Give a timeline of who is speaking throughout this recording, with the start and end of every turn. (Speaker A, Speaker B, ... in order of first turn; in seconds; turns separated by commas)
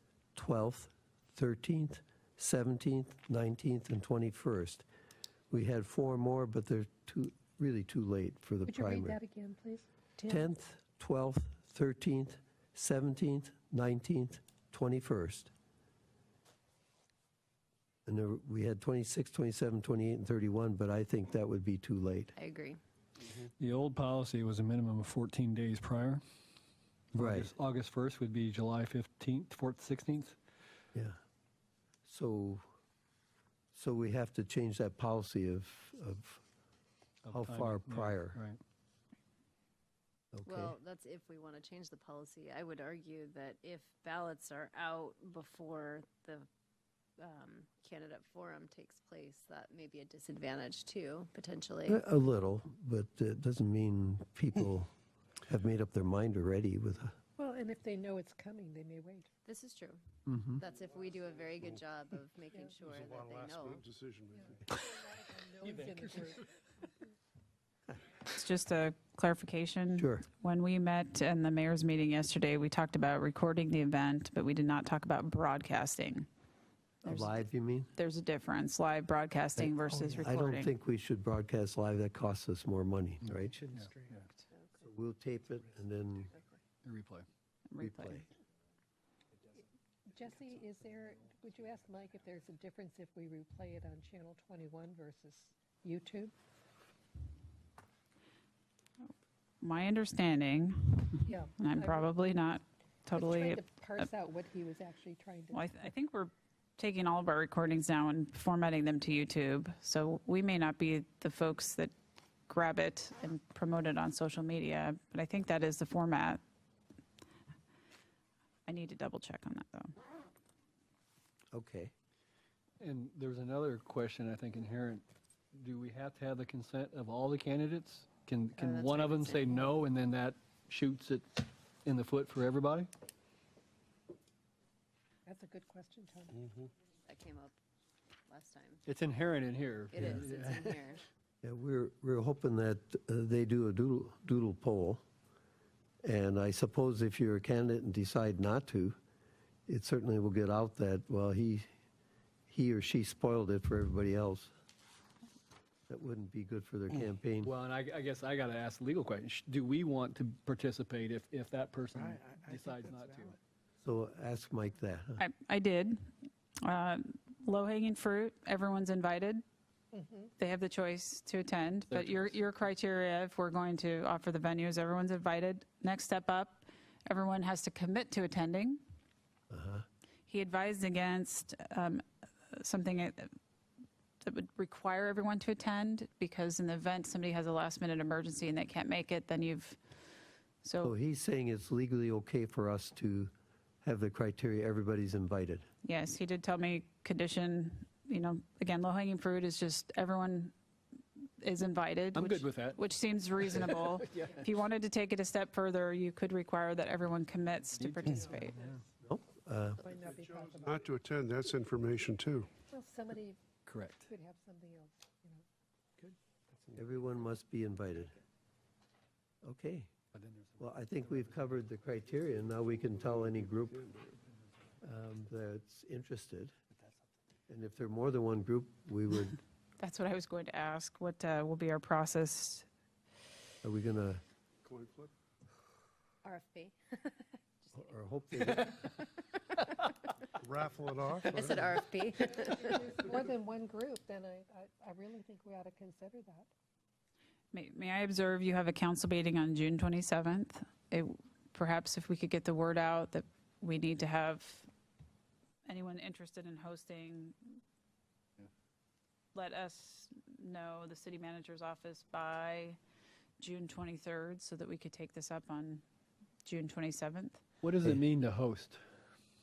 Speaker A: 0.3-4.9, Speaker A: 5.5-9.2, Speaker B: 8.6-10.5, Speaker A: 10.3-15.5, Speaker A: 18.1-22.3, Speaker C: 22.4-22.8, Speaker D: 23.4-26.2, Speaker D: 27.1-30.4, Speaker A: 27.1-27.5, Speaker A: 32.0-32.6, Speaker A: 33.7-36.4, Speaker D: 37.2-38.6, Speaker A: 37.3-38.4, Speaker A: 40.3-40.7, Speaker C: 40.4-46.5, Speaker C: 47.2-52.0, Speaker A: 51.9-54.9, Speaker A: 55.4-57.2, Speaker B: 57.4-59.3, Speaker C: 59.4-63.8, Speaker B: 62.5-62.8, Speaker E: 62.9-64.5, Speaker B: 64.3-67.1, Speaker D: 65.7-65.9, Speaker F: 68.3-76.3, Speaker A: 70.0-70.2, Speaker A: 77.0-77.9, Speaker F: 77.0-80.7, Speaker A: 79.6-83.6, Speaker D: 83.2-84.3, Speaker E: 83.6-84.1, Speaker A: 84.8-86.3, Speaker D: 86.8-87.3, Speaker F: 87.7-88.3, Speaker A: 87.8-88.3, Speaker B: 89.5-96.3, Speaker F: 99.6-103.6, Speaker B: 101.2-102.3, Speaker B: 103.1-105.7, Speaker F: 105.5-111.9, Speaker F: 112.5-116.4, Speaker F: 118.7-119.9, Speaker A: 121.5-121.9, Speaker D: 122.8-132.9, Speaker C: 128.5-129.8, Speaker B: 135.2-136.6, Speaker C: 137.0-137.5, Speaker C: 138.3-138.8, Speaker D: 138.8-140.8, Speaker C: 139.9-141.0, Speaker A: 141.4-145.0, Speaker A: 146.0-149.0, Speaker A: 149.7-151.7, Speaker A: 152.5-154.5, Speaker A: 155.9-157.5, Speaker D: 157.4-163.4, Speaker E: 162.7-163.2, Speaker A: 163.8-165.2, Speaker F: 165.2-166.1, Speaker F: 166.6-169.4, Speaker B: 169.9-170.3, Speaker F: 170.4-178.8, Speaker D: 171.9-172.3, Speaker A: 179.5-179.8, Speaker F: 180.3-183.3, Speaker F: 184.2-189.8, Speaker F: 190.6-190.9, Speaker A: 190.8-193.3, Speaker A: 193.8-195.7, Speaker F: 195.8-200.5, Speaker F: 201.4-208.5, Speaker D: 202.1-202.8, Speaker D: 203.4-204.5, Speaker D: 207.7-208.8, Speaker A: 209.0-209.8, Speaker B: 209.8-210.9, Speaker E: 210.1-212.5, Speaker B: 212.7-213.4, Speaker D: 213.7-214.1, Speaker B: 214.0-215.4, Speaker A: 216.7-218.2, Speaker A: 219.4-219.9, Speaker D: 220.1-221.5, Speaker A: 220.6-223.9, Speaker E: 222.9-224.1, Speaker A: 224.8-226.5, Speaker A: 227.5-229.4, Speaker F: 229.8-232.7, Speaker A: 233.6-234.2, Speaker E: 234.7-235.1, Speaker C: 236.2-237.7, Speaker A: 237.7-238.8, Speaker E: 240.4-241.7, Speaker C: 241.2-242.8, Speaker B: 242.4-246.5, Speaker F: 247.5-254.7, Speaker F: 255.7-257.6, Speaker F: 259.3-262.8, Speaker F: 263.4-265.8, Speaker F: 266.4-267.4, Speaker D: 267.6-268.8